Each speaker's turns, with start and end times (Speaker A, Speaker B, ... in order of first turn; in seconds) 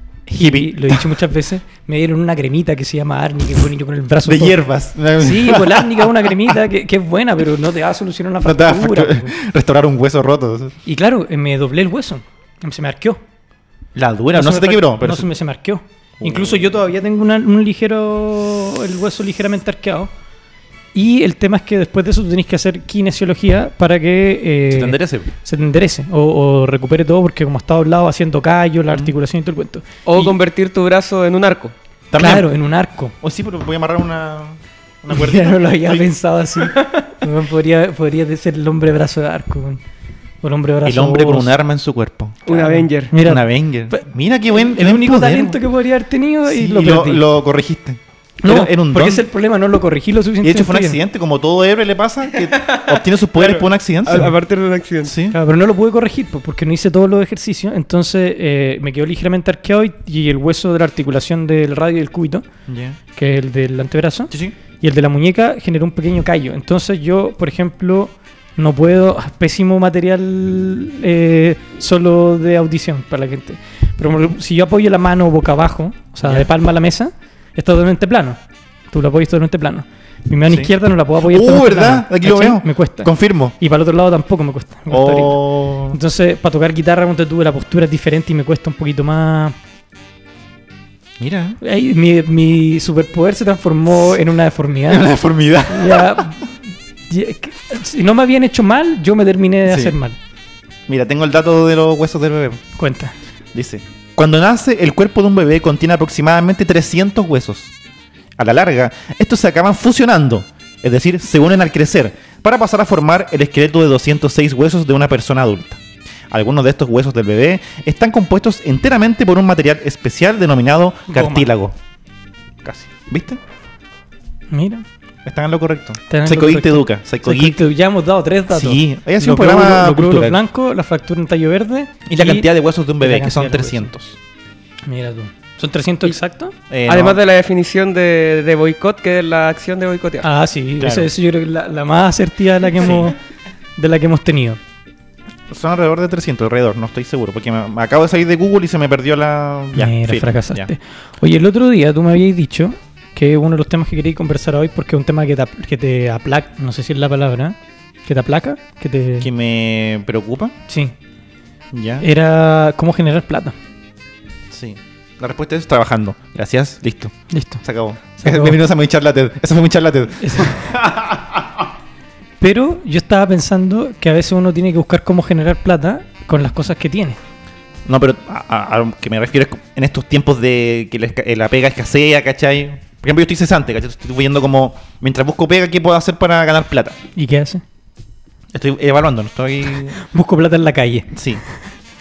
Speaker A: 0.3-4.6, 5.2-9.4, 10.9-13.2, 14.3-20.1, 20.9-30.3, 32.1-33.1, 35.1-39.8, 40.4-41.5, 42.5-47.2, 48.4-51.0, 55.3-62.5, 63.1-78.4, 78.9-89.5, 91.6-95.1, 95.7-96.6, 97.1-100.2, 102.8-103.2, 121.1-121.5, 124.5-124.8, 126.1-132.5, 133.0-133.9, 134.9-136.5, 140.2-143.2, 143.8-144.6, 149.7-159.3, 160.7-160.9, 162.0-163.6, 167.3-167.6, 168.2-168.6, 170.2-170.6, 172.4-177.2, 187.2-187.6, 190.0-191.1
Speaker B: 0.4-1.2, 4.2-6.5, 8.4-10.8, 13.9-15.3, 16.2-16.6, 24.7-25.3, 32.1-32.5, 33.2-36.1, 40.8-42.4, 43.2-45.6, 46.5-49.2, 50.4-54.3, 55.0-55.4, 62.7-63.0, 64.3-64.6, 76.2-76.5, 80.5-83.5, 84.9-86.0, 91.2-91.6, 94.9-96.2, 99.7-100.0, 100.9-102.6, 103.5-107.7, 108.4-121.8, 122.6-123.4, 125.2-127.6, 128.5-130.4, 132.1-134.2, 136.7-137.2, 140.8-141.1, 142.8-143.1, 145.5-150.7, 159.2-160.6, 161.7-162.1, 164.5-171.7, 177.9-187.0, 188.5-190.0, 191.1-191.4
Speaker C: 30.1-31.7, 42.5-43.1, 52.4-55.1, 136.9-140.3